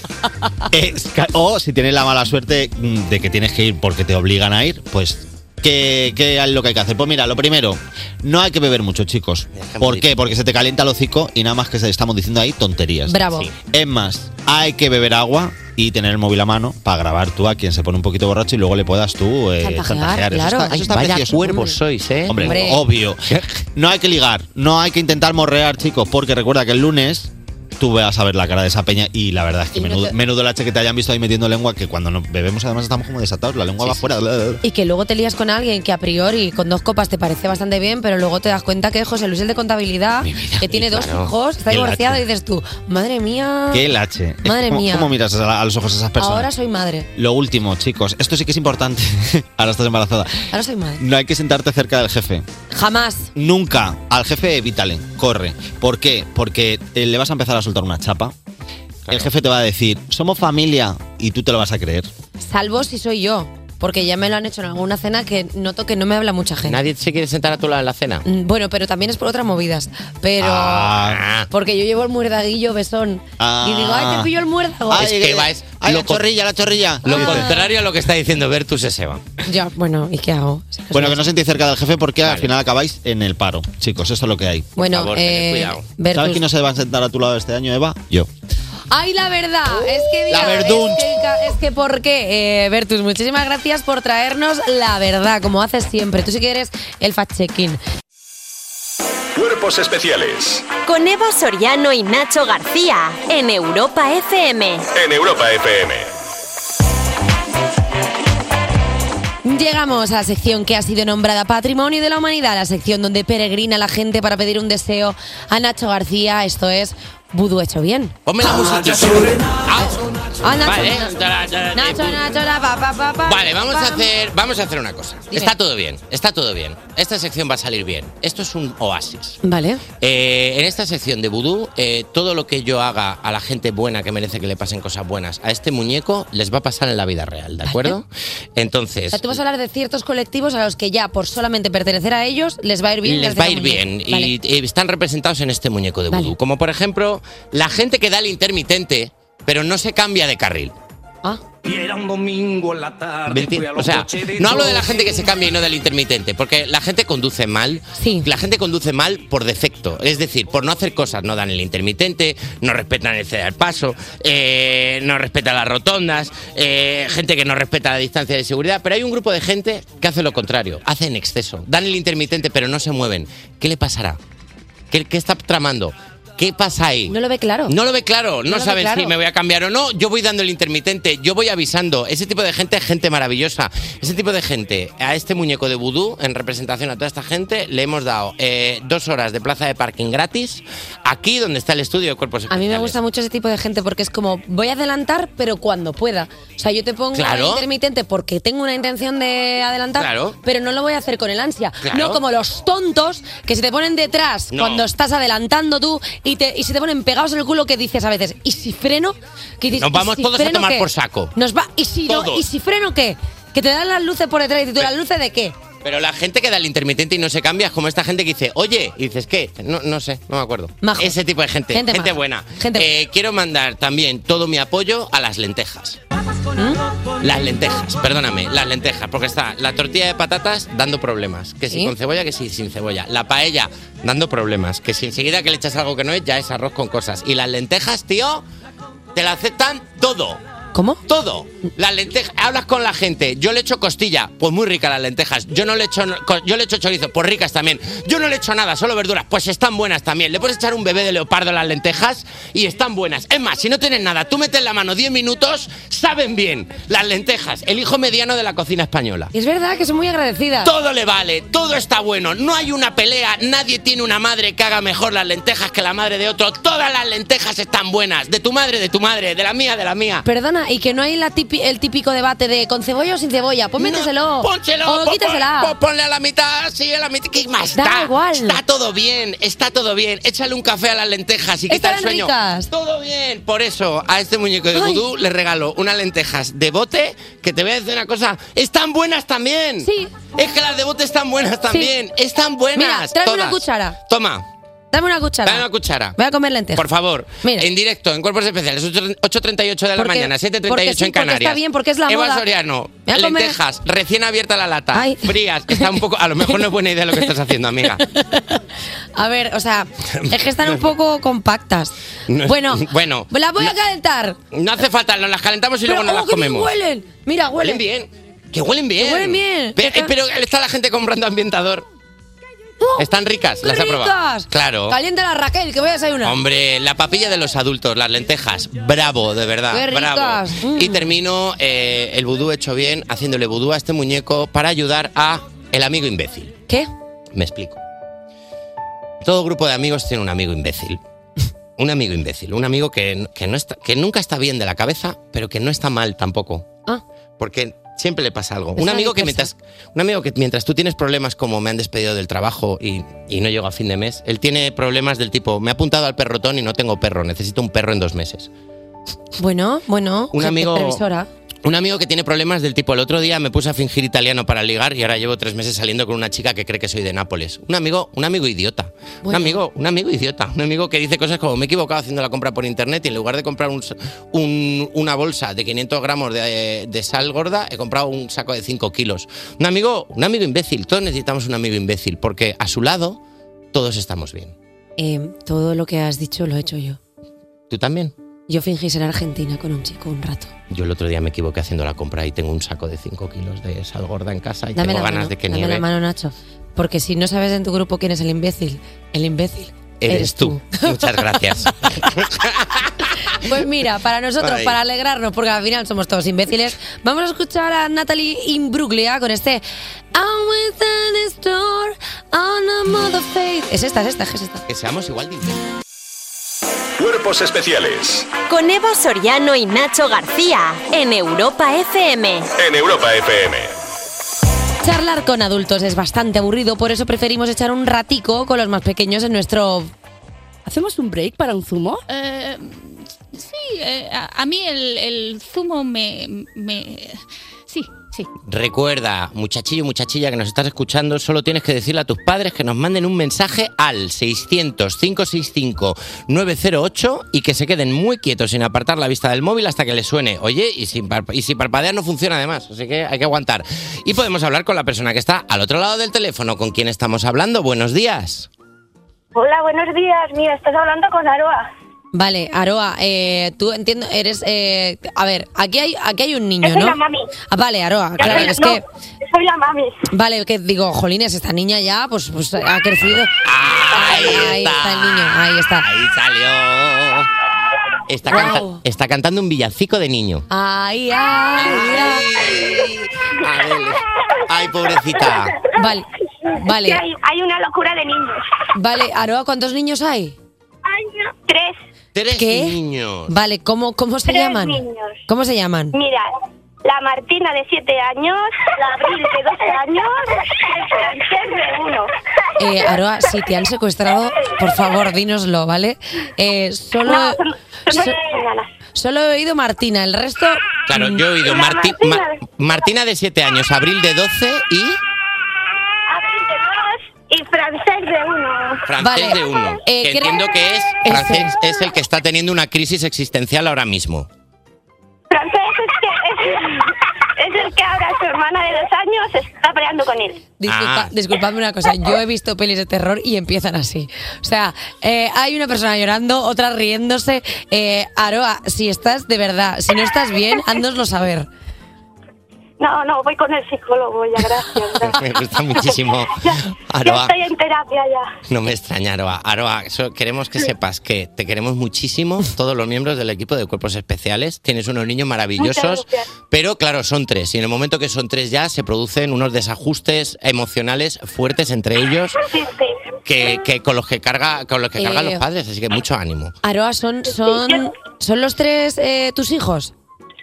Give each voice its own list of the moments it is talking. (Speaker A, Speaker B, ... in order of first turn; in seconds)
Speaker A: 0.7-21.7, 22.3-34.6, 41.7-42.2, 43.7-46.5, 47.1-50.5, 51.0-52.5, 53.4-58.3, 59.1-62.1, 70.4-71.2, 73.4-74.3, 74.9-77.5, 80.9-84.8, 86.1-88.3, 90.3-91.0
Speaker B: 9.5-10.2, 13.3-13.6, 20.7-23.5, 33.8-34.1, 40.2-41.3, 66.7-68.2, 71.0-71.5, 74.9-76.2, 77.0-79.2, 82.2-82.5, 84.8-85.8, 118.3-120.0, 120.6-122.3, 123.3-129.4, 130.0-139.4, 143.1-150.7, 153.3-174.2, 174.9-177.2, 177.7-192.9, 197.1-197.6, 200.0-200.4, 201.8-202.2, 204.5-204.9, 209.8-211.3, 212.1-212.4, 215.8-226.0, 227.2-238.4, 239.2-240.4, 241.1-259.3, 260.6-270.2, 273.8-294.4, 295.4-296.2, 296.8-308.0, 312.3-313.7, 314.5-316.7, 317.6-321.9, 323.0-325.0, 326.2-336.5, 337.3-337.8, 339.2-341.0, 341.8-346.7, 347.4-358.5, 360.3-361.0, 361.6-383.2, 383.7-384.6, 387.7-388.1, 390.7-395.9, 400.0-403.4, 404.4-404.8, 414.7-415.6, 438.5-458.5, 473.4-477.3, 478.1-480.4, 481.6-485.6, 492.1-493.3, 510.9-515.0, 518.9-524.3, 530.7-531.1, 545.0-547.3, 548.5-562.4, 563.3-566.5
Speaker C: 13.1-13.5, 19.6-21.8, 22.4-22.8, 29.8-30.1, 34.6-43.9, 44.4-45.1, 46.2-47.1, 50.5-51.0, 52.7-53.3, 62.4-66.8, 68.2-71.0, 71.5-75.1, 77.0-77.7, 79.5-81.3, 84.8-86.4, 88.9-97.8, 109.4-118.2, 120.4-121.1, 121.7-124.1, 129.4-129.8, 137.7-138.0, 139.1-144.3, 158.0-158.3, 177.1-177.7, 178.5-179.1, 192.5-215.6, 220.8-221.2, 221.7-222.9, 226.6-226.8, 240.7-241.0, 259.3-260.7, 270.2-275.7, 277.8-278.6, 281.7-282.7, 284.7-285.0, 289.8-290.1, 292.7-294.0, 294.9-296.9, 297.4-297.7, 300.0-302.5, 303.1-303.6, 304.9-306.0, 308.1-308.6, 309.2-311.9, 312.5-314.4, 315.9-317.8, 319.0-320.1, 323.6-326.4, 329.7-331.1, 348.8-349.5, 359.4-361.3, 369.2-369.6, 385.0-387.0, 388.5-390.5, 394.8-402.1, 403.4-409.6, 410.1-414.6, 424.8-429.9, 462.1-467.0, 467.5-468.8, 470.1-473.3, 473.9-475.9, 478.3-478.8, 480.5-482.2, 485.8-486.1, 486.6-487.0, 488.8-490.4, 492.4-492.8, 493.3-495.9, 502.6-508.2, 508.9-511.2, 519.0-520.5, 521.0-521.5, 530.6-541.5, 565.0-565.4, 566.6-569.9
Speaker D: 99.3-100.7, 104.9-106.1, 417.0-418.3, 422.6-423.7
Speaker E: 100.8-104.9, 418.5-422.5
Speaker F: 151.7-155.3
Speaker G: 432.1-438.3
Speaker H: 459.4-461.7, 466.6-467.3, 468.2-470.0, 485.3-488.5, 490.9-491.8, 494.3-495.2, 495.9-496.3, 496.8-502.1, 507.0-508.7, 511.4-512.4, 516.1-518.9, 525.3-530.5, 542.8-545.2, 545.8-548.4, 555.6-556.3, 562.4-563.0, 567.4-567.9